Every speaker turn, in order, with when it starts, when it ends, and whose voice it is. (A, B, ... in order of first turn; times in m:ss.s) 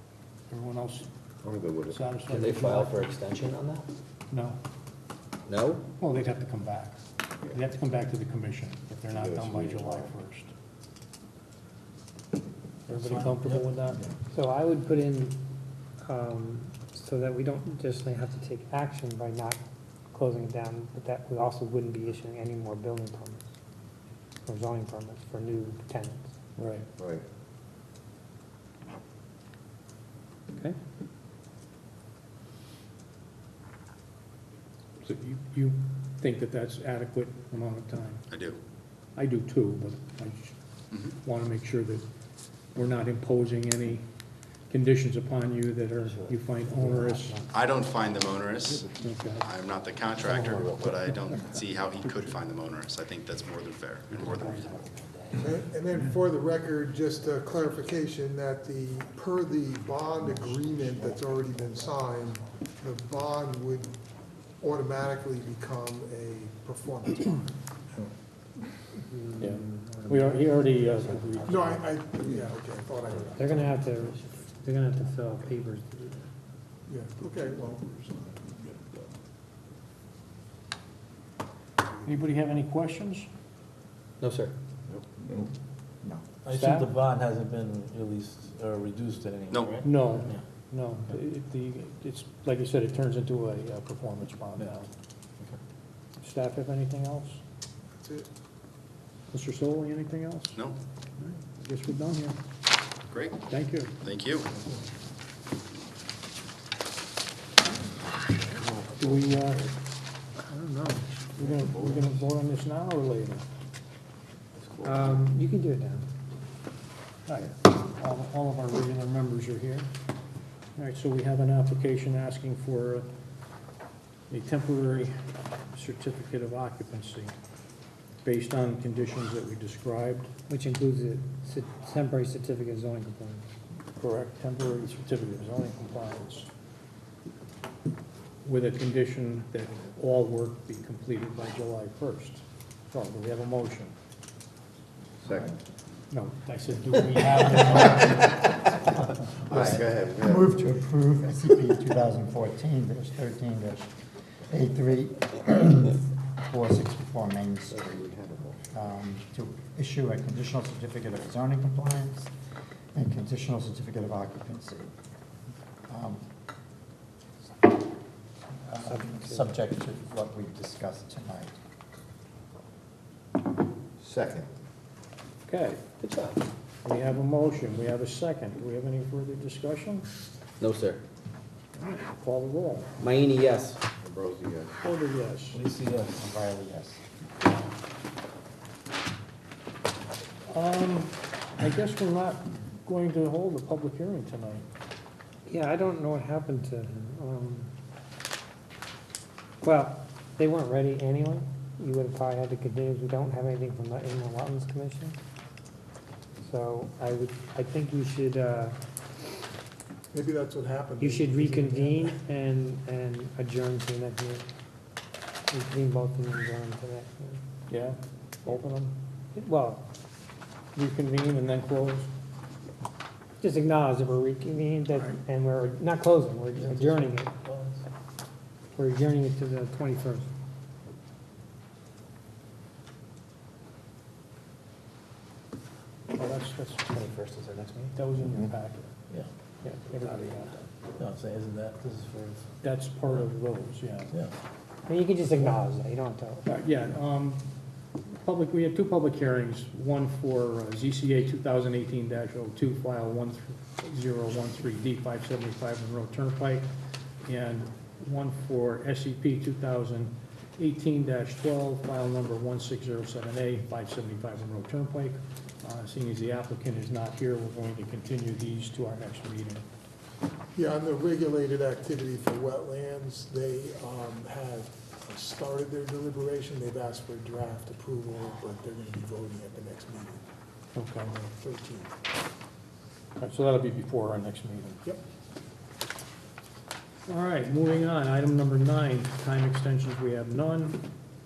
0:00.5-0:01.0 A
0:01.4-0:02.0 B
0:01.9-0:03.0 A
0:02.3-0:03.9 C
0:04.3-0:04.6 A
0:05.5-0:05.8 C
0:06.0-0:07.0 A
0:07.5-0:10.5 A
0:09.1-0:10.1 B
0:12.9-0:14.0 A
0:13.0-0:13.6 D
0:14.3-0:15.4 E
0:16.0-0:19.6 E
0:20.1-0:23.4 E
0:24.4-0:26.3 E
0:26.6-0:26.8 A
0:35.0-0:38.2 A
0:38.3-0:38.6 F
0:39.2-0:40.6 A
0:41.1-0:42.0 A
0:42.7-0:44.0 A
0:44.7-0:47.4 A
0:46.1-0:47.4 C
0:47.5-0:48.9 F
0:49.0-0:49.5 A
0:49.4-0:54.8 F
0:50.2-0:51.5 B
0:55.4-1:03.9 G
1:04.6-1:07.5 G
1:09.1-1:11.1 E
1:09.4-1:11.8 A
1:11.4-1:13.8 G
1:13.4-1:16.2 E
1:16.9-1:18.4 G
1:22.0-1:23.3 A
1:24.2-1:24.5 C
1:24.9-1:25.3 B
1:26.4-1:30.4 D
1:26.5-1:26.9 A
1:29.5-1:29.8 F
1:29.8-1:34.9 A
1:36.2-1:37.4 A
1:38.0-1:38.3 G
1:39.3-1:40.6 A
1:41.2-1:42.4 A
1:43.1-1:43.4 F
1:43.5-1:44.0 A
1:44.0-1:44.5 F
1:48.7-1:49.2 B
1:49.0-1:49.7 A
1:50.4-1:53.4 A
1:51.4-1:52.0 B
1:54.7-1:55.2 B
1:54.8-1:56.1 E
1:57.3-1:59.9 A
2:00.8-2:03.1 A
2:04.3-2:07.3 A
2:08.2-2:10.3 A
2:10.5-2:13.4 E
2:14.0-2:16.5 A
2:18.4-2:23.9 A
2:25.2-2:25.5 B
2:26.1-2:28.5 A
2:29.4-2:30.6 B
2:29.4-2:33.9 H
2:34.5-2:38.0 H
2:37.7-2:38.6 B
2:38.6-2:42.3 H
2:42.9-2:44.9 H
2:45.9-2:46.2 H
2:48.6-2:51.6 H
2:48.8-2:49.5 E
2:54.0-2:54.5 B
2:55.4-2:55.8 A
2:56.0-2:56.4 C
2:56.8-3:00.0 A
3:00.6-3:01.0 C
3:01.8-3:02.9 A
3:03.0-3:03.8 C
3:04.0-3:04.7 B
3:04.8-3:05.6 A
3:05.5-3:06.3 D
3:06.1-3:07.0 H
3:10.5-3:14.6 A
3:15.4-3:17.7 E
3:19.6-3:25.2 E
3:26.4-3:28.8 E
3:30.1-3:32.2 G
3:31.0-3:34.4 E
3:35.5-3:37.4 E
3:37.7-3:38.9 A
3:39.3-3:39.8 E
3:40.7-3:42.1 A
3:43.4-3:47.3 E
3:46.5-3:47.8 D
3:48.7-3:50.3 E
3:56.1-3:57.0 A
3:56.9-3:57.9 C
3:57.9-3:58.9 A
3:59.6-4:00.6 A
4:01.0-4:02.5 D
4:02.6-4:04.1 A
4:04.9-4:06.5 E
4:06.4-4:07.4 A
4:08.2-4:16.6 A
4:17.2-4:29.6 A
4:30.5-4:40.2 G
4:40.7-4:41.1 A
4:41.0-4:41.9 G
4:43.2-4:44.8 A
4:47.1-4:50.8 A